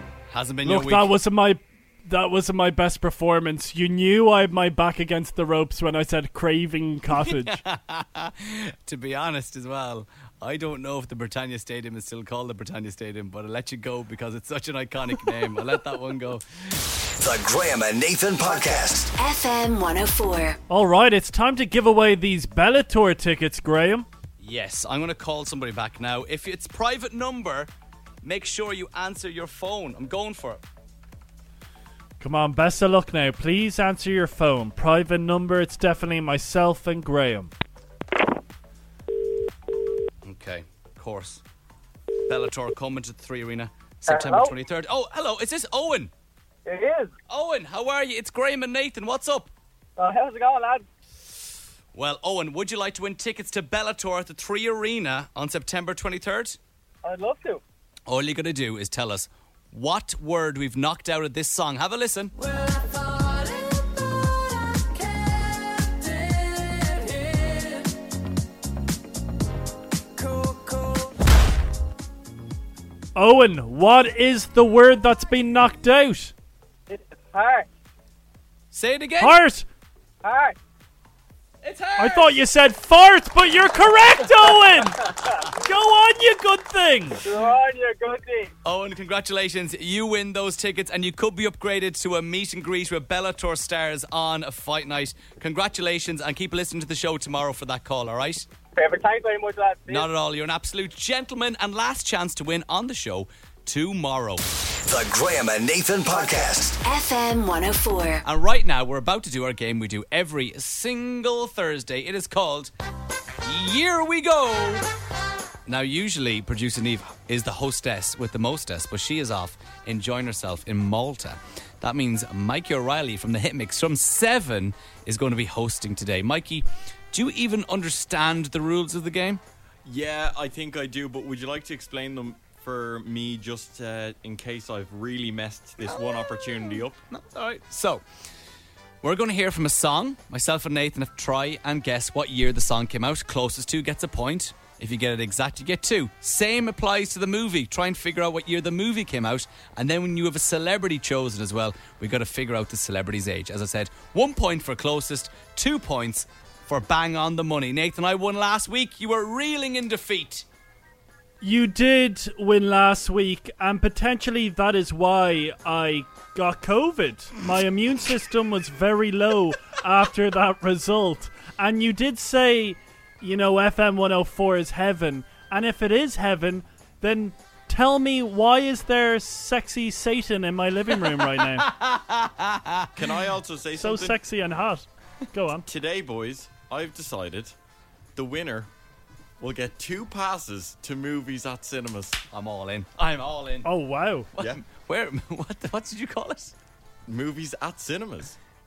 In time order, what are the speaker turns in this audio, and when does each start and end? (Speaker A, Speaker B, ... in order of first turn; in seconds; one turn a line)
Speaker A: 0.3-1.1
Speaker B: 0.6-7.6
Speaker A: 7.2-16.8
Speaker C: 17.1-19.2
Speaker D: 19.2-20.6
Speaker B: 20.7-24.1
Speaker A: 24.4-27.7
Speaker A: 28.2-30.6
Speaker B: 32.2-37.5
Speaker A: 40.2-41.4
Speaker A: 42.3-46.1
Speaker E: 44.1-44.5
Speaker E: 46.6-47.1
Speaker A: 47.3-49.5
Speaker E: 50.0-50.9
Speaker A: 51.9-56.6
Speaker E: 57.0-57.6
Speaker A: 58.1-62.3
Speaker B: 73.2-76.3
Speaker E: 76.9-77.7
Speaker A: 78.7-79.4
Speaker B: 79.2-79.7
Speaker E: 80.2-80.5
Speaker A: 81.6-82.4
Speaker B: 82.0-85.1
Speaker A: 85.0-85.5
Speaker B: 85.6-87.2
Speaker E: 87.2-88.5
Speaker A: 88.6-98.5
Speaker E: 98.8-100.1
Speaker A: 99.9-104.4
Speaker C: 104.9-106.8
Speaker D: 106.8-108.2
Speaker A: 108.2-112.7
Speaker A: 113.4-114.8
Speaker A: 115.7-129.4
Speaker F: 129.9-137.0
Speaker A: 137.1-138.0
Speaker A: 139.0-160.4
Speaker B: 161.4-181.7
Speaker A: 181.6-182.9
Speaker F: 183.0-184.2
Speaker B: 183.8-185.6
Speaker F: 185.7-187.5
Speaker F: 188.2-188.7
Speaker F: 189.4-192.2
Speaker A: 192.3-193.7
Speaker B: 193.6-194.3
Speaker A: 194.4-196.5
Speaker F: 197.1-198.4